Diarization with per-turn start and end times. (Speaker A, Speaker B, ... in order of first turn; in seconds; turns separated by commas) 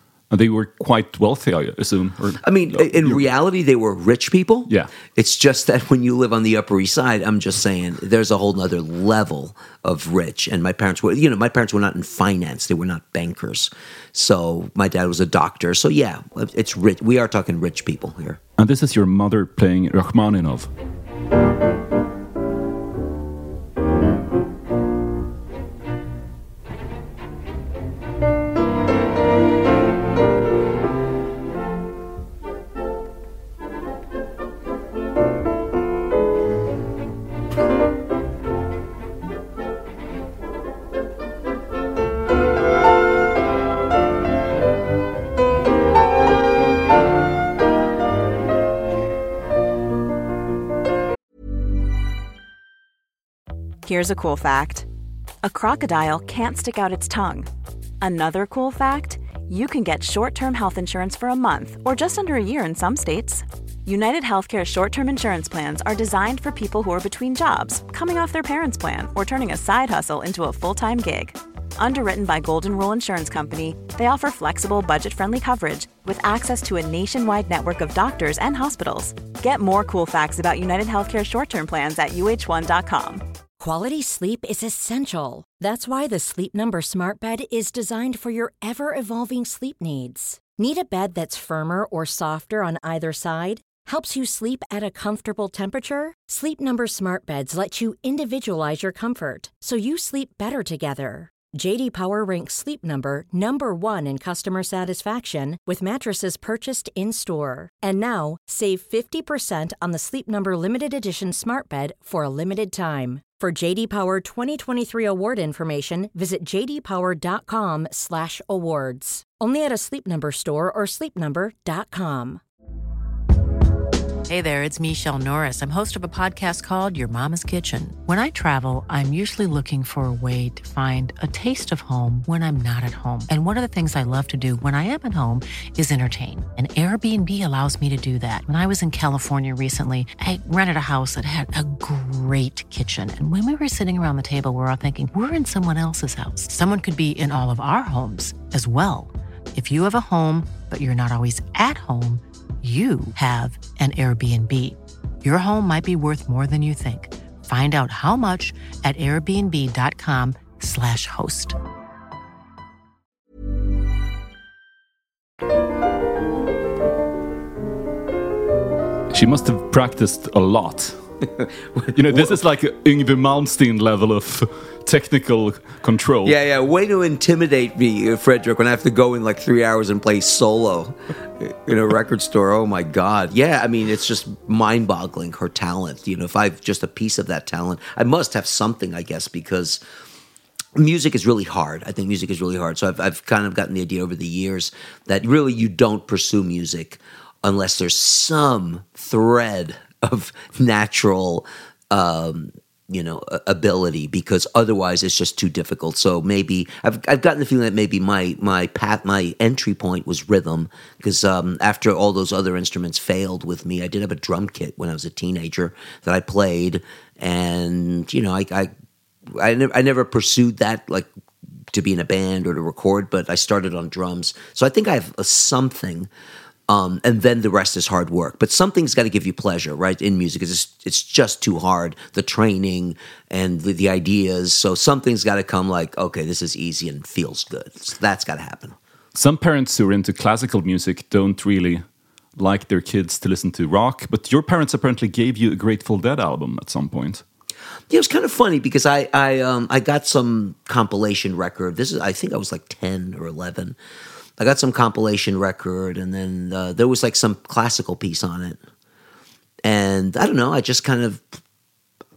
Speaker A: 0.3-3.3, Speaker B: 2.4-18.4, Speaker A: 18.6-20.7, Speaker C: 53.9-54.9, Speaker C: 55.4-57.5, Speaker C: 58.0-83.2, Speaker D: 83.6-122.4, Speaker E: 124.3-161.6, Speaker A: 169.1-171.0, Speaker B: 171.8-172.4, Speaker A: 171.9-176.3, Speaker B: 176.2-189.8, Speaker B: 190.8-218.7, Speaker B: 219.3-221.1, Speaker B: 221.7-226.1, Speaker B: 226.7-238.8, Speaker A: 239.1-241.8, Speaker A: 242.4-247.2, Speaker B: 247.9-253.8, Speaker B: 254.4-258.6, Speaker B: 259.6-261.4